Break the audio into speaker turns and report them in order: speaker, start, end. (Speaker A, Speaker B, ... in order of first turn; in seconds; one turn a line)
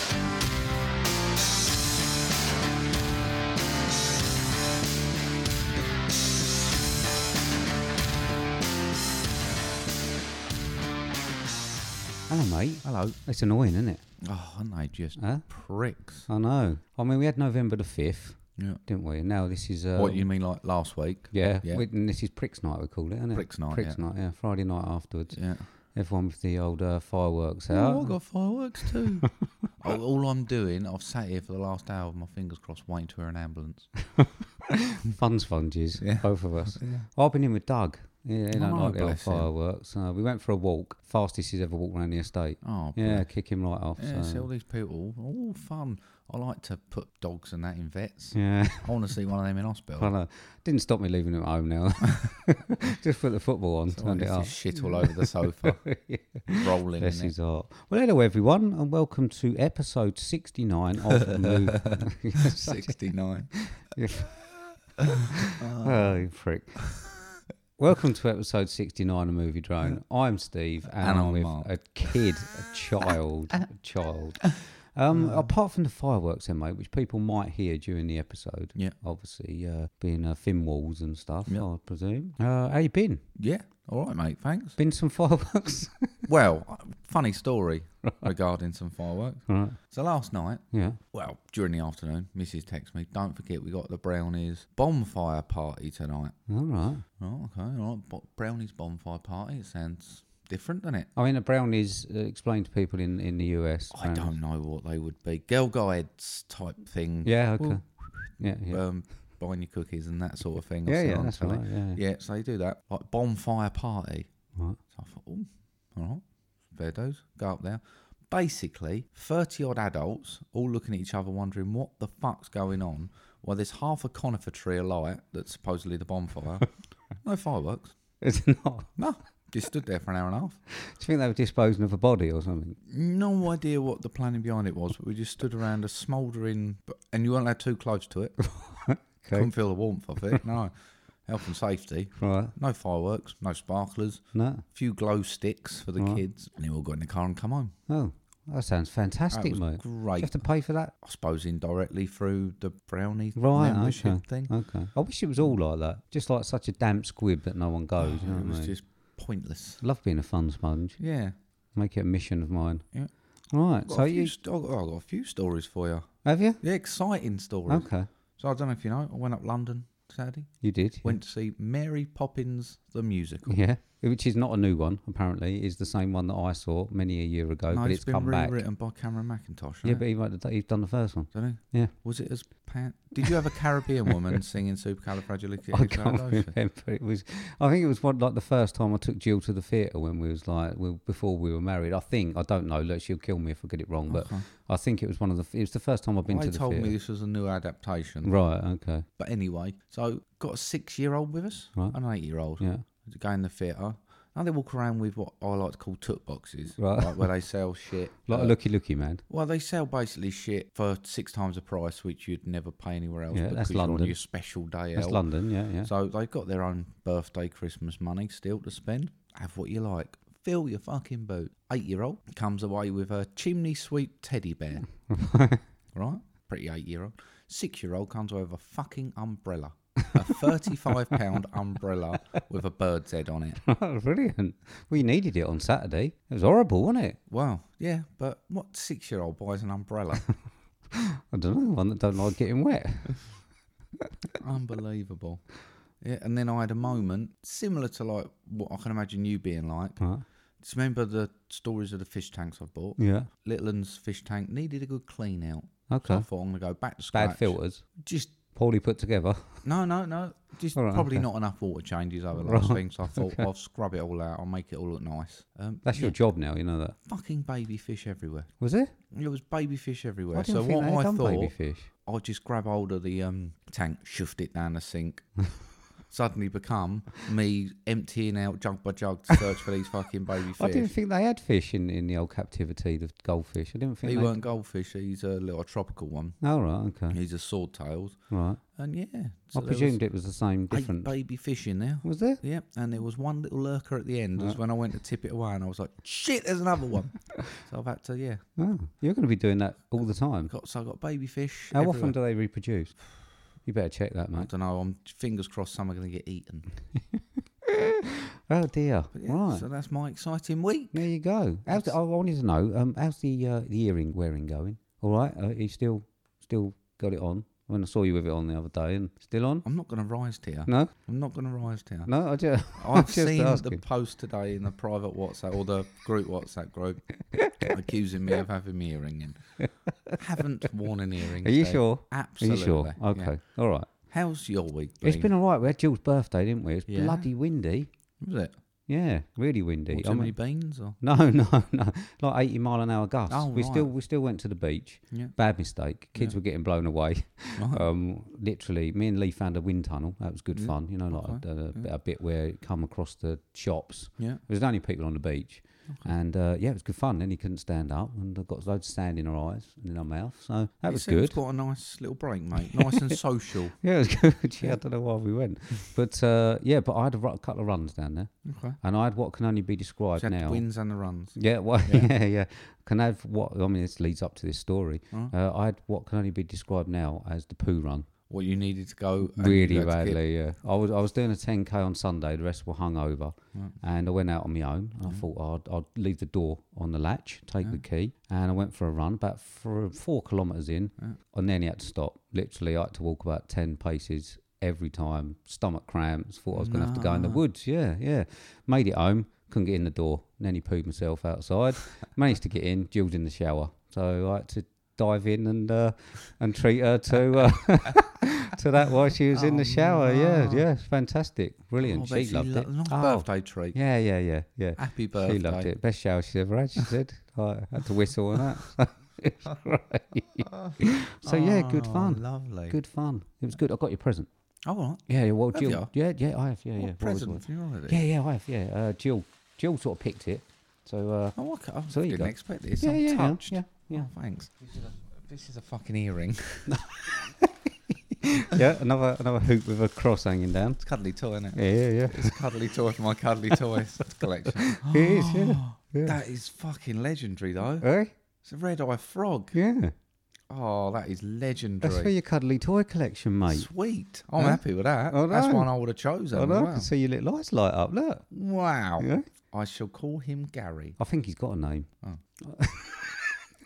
Speaker A: 12.3-14.0
Speaker B: 12.8-13.2
Speaker B: 14.2-16.3
Speaker A: 15.2-15.5
Speaker A: 16.3-20.3
Speaker B: 19.9-21.9
Speaker A: 21.3-28.2
Speaker B: 23.3-24.0
Speaker B: 25.3-25.7
Speaker B: 27.7-33.9
Speaker A: 28.8-29.4
Speaker A: 34.7-44.5
Speaker B: 36.0-37.1
Speaker B: 38.5-39.5
Speaker B: 42.6-43.3
Speaker B: 44.0-50.1
Speaker A: 48.3-48.9
Speaker A: 50.0-64.9
Speaker B: 53.9-55.9
Speaker B: 56.5-57.3
Speaker B: 61.4-63.8
Speaker B: 65.0-66.2
Speaker A: 65.5-67.2
Speaker A: 67.8-83.2
Speaker B: 70.9-71.7
Speaker B: 75.1-75.5
Speaker B: 83.4-84.8
Speaker A: 84.8-86.1
Speaker B: 86.3-96.4
Speaker A: 88.0-88.3
Speaker A: 89.5-89.8
Speaker A: 90.7-91.0
Speaker A: 96.5-97.0
Speaker B: 97.2-101.1
Speaker A: 101.2-104.4
Speaker B: 103.9-107.8
Speaker A: 107.2-108.8
Speaker B: 108.7-114.3
Speaker A: 110.9-112.0
Speaker B: 114.9-127.9
Speaker A: 128.2-129.0
Speaker B: 129.0-130.6
Speaker A: 130.8-132.8
Speaker B: 132.9-138.5
Speaker A: 138.6-139.5
Speaker B: 139.3-147.7
Speaker A: 142.2-142.5
Speaker A: 144.3-144.6
Speaker A: 146.0-146.2
Speaker A: 147.9-150.9
Speaker B: 149.3-154.5
Speaker A: 153.4-158.7
Speaker B: 158.0-159.8
Speaker A: 159.8-161.0
Speaker B: 161.0-161.3
Speaker A: 161.7-162.9
Speaker A: 163.5-164.3
Speaker B: 163.8-167.9
Speaker A: 166.2-166.6
Speaker A: 167.7-168.1
Speaker B: 168.4-173.6
Speaker A: 170.6-171.2
Speaker A: 173.5-178.6
Speaker B: 177.7-180.0
Speaker A: 179.8-181.9
Speaker B: 181.3-186.5
Speaker A: 185.7-196.9
Speaker B: 194.1-194.5
Speaker B: 196.3-198.3
Speaker A: 198.2-199.1
Speaker B: 199.2-208.6
Speaker A: 202.6-202.8
Speaker A: 206.8-207.3
Speaker A: 208.3-209.2
Speaker B: 209.3-215.2
Speaker A: 213.3-214.2
Speaker A: 214.9-215.9
Speaker B: 215.8-224.9
Speaker A: 225.1-225.6
Speaker B: 225.9-233.6
Speaker A: 233.6-237.2
Speaker B: 237.3-240.3
Speaker A: 240.9-243.3
Speaker B: 244.4-245.4
Speaker B: 246.0-250.0
Speaker B: 250.6-258.3
Speaker A: 253.0-253.3
Speaker A: 255.9-256.3
Speaker A: 257.1-257.8
Speaker A: 258.5-259.6
Speaker B: 259.6-266.2
Speaker A: 260.8-261.2
Speaker A: 262.4-263.5
Speaker A: 265.9-267.0
Speaker B: 267.1-268.5
Speaker A: 268.6-268.9
Speaker B: 269.1-275.3
Speaker A: 270.3-271.9
Speaker B: 276.1-280.9
Speaker A: 280.6-284.4
Speaker B: 284.0-286.4
Speaker A: 286.4-287.2
Speaker B: 287.1-288.2
Speaker A: 288.3-288.6
Speaker B: 288.7-290.0
Speaker A: 289.5-291.1
Speaker B: 290.7-298.4
Speaker A: 292.0-292.4
Speaker A: 298.6-300.5
Speaker B: 300.5-302.2
Speaker A: 301.7-303.0
Speaker A: 303.6-304.5
Speaker B: 304.4-306.7
Speaker A: 307.0-309.7
Speaker B: 309.1-311.1
Speaker A: 310.9-319.7
Speaker B: 311.6-311.9
Speaker B: 319.6-322.1
Speaker A: 320.7-320.9
Speaker A: 322.1-323.8
Speaker B: 322.7-329.6
Speaker A: 327.3-327.7
Speaker A: 329.6-330.1
Speaker B: 330.1-333.4
Speaker A: 331.4-333.9
Speaker B: 333.9-335.3
Speaker A: 335.0-337.9
Speaker B: 336.9-337.3
Speaker B: 338.2-338.5
Speaker A: 338.9-340.4
Speaker B: 339.9-341.0
Speaker A: 341.0-361.4
Speaker B: 343.3-343.9
Speaker B: 347.6-347.9
Speaker B: 350.5-351.9
Speaker B: 360.9-363.8
Speaker A: 362.6-363.2
Speaker A: 363.8-370.6
Speaker B: 368.4-368.8
Speaker B: 370.2-372.1
Speaker A: 371.4-378.1
Speaker B: 378.3-380.2
Speaker A: 379.4-424.3
Speaker B: 396.5-397.4
Speaker B: 409.3-410.6
Speaker B: 411.8-413.8
Speaker B: 414.8-415.7
Speaker B: 420.4-422.8
Speaker B: 424.6-425.9
Speaker A: 425.1-431.4
Speaker B: 426.8-428.0
Speaker B: 431.4-436.9
Speaker A: 431.9-434.1
Speaker A: 436.7-437.7
Speaker A: 438.2-440.8
Speaker B: 440.8-447.9
Speaker A: 441.6-442.4
Speaker A: 444.6-446.2
Speaker A: 447.8-448.1
Speaker B: 448.4-449.6
Speaker A: 449.5-449.9
Speaker B: 450.5-452.1
Speaker A: 451.8-453.7
Speaker B: 453.5-456.9
Speaker A: 454.4-455.7
Speaker A: 456.3-458.3
Speaker B: 458.3-461.0
Speaker A: 459.0-459.3
Speaker A: 461.0-461.9
Speaker A: 462.4-463.4